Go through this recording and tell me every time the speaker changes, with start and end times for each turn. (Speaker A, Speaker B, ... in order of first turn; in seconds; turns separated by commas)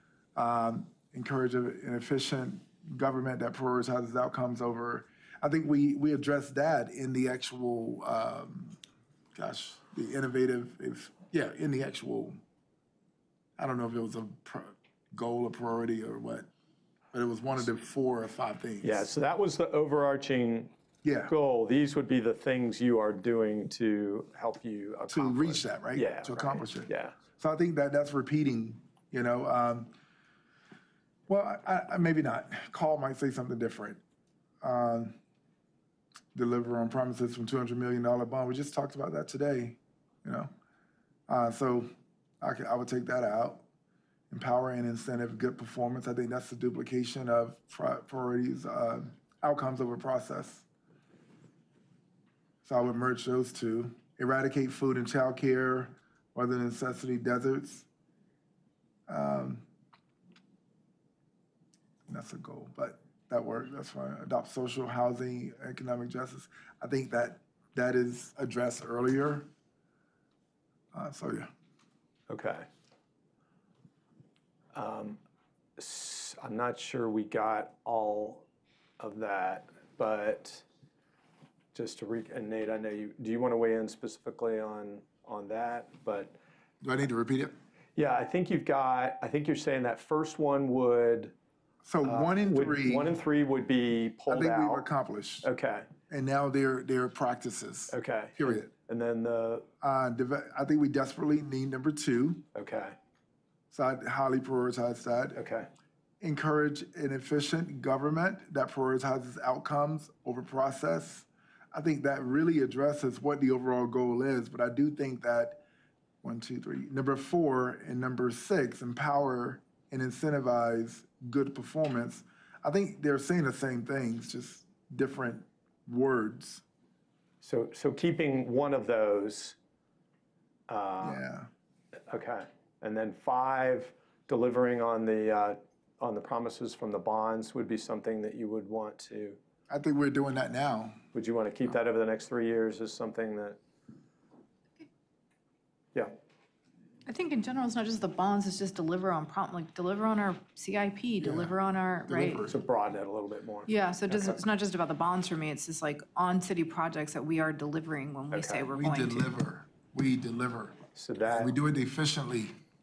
Speaker A: 0.4-8.8, Speaker A: 9.3-12.4, Speaker A: 13.6-16.5, Speaker A: 17.1-19.1, Speaker B: 18.8-20.7, Speaker A: 21.0-21.3, Speaker B: 21.3-27.2, Speaker A: 25.1-29.9, Speaker A: 31.3-34.0, Speaker A: 34.6-35.2, Speaker A: 36.3-40.5, Speaker A: 41.3-41.9, Speaker A: 42.4-43.6, Speaker A: 44.3-50.7, Speaker A: 52.6-57.9, Speaker A: 59.1-59.7, Speaker A: 62.1-69.5, Speaker A: 70.9-71.5, Speaker B: 72.3-72.7, Speaker B: 74.7-75.2, Speaker B: 75.8-78.5, Speaker B: 79.0-80.6, Speaker B: 81.7-86.4, Speaker A: 86.8-87.5, Speaker B: 88.0-91.3, Speaker A: 91.8-93.2, Speaker B: 92.0-94.9, Speaker A: 94.3-95.5, Speaker B: 95.4-95.9, Speaker A: 96.1-98.7, Speaker B: 97.9-99.7, Speaker A: 99.8-102.5, Speaker B: 102.5-103.0, Speaker A: 103.7-105.4, Speaker B: 105.4-105.7, Speaker A: 106.2-115.6, Speaker A: 116.2-126.6, Speaker B: 127.4-129.6, Speaker B: 130.7-131.2, Speaker A: 131.0-131.5, Speaker B: 132.1-139.4, Speaker A: 139.7-141.0, Speaker B: 141.1-143.6, Speaker C: 147.1-152.5, Speaker A: 151.2-152.6, Speaker B: 152.5-154.4, Speaker C: 153.7-159.3, Speaker B: 158.3-158.7, Speaker A: 158.8-162.5, Speaker B: 160.9-161.5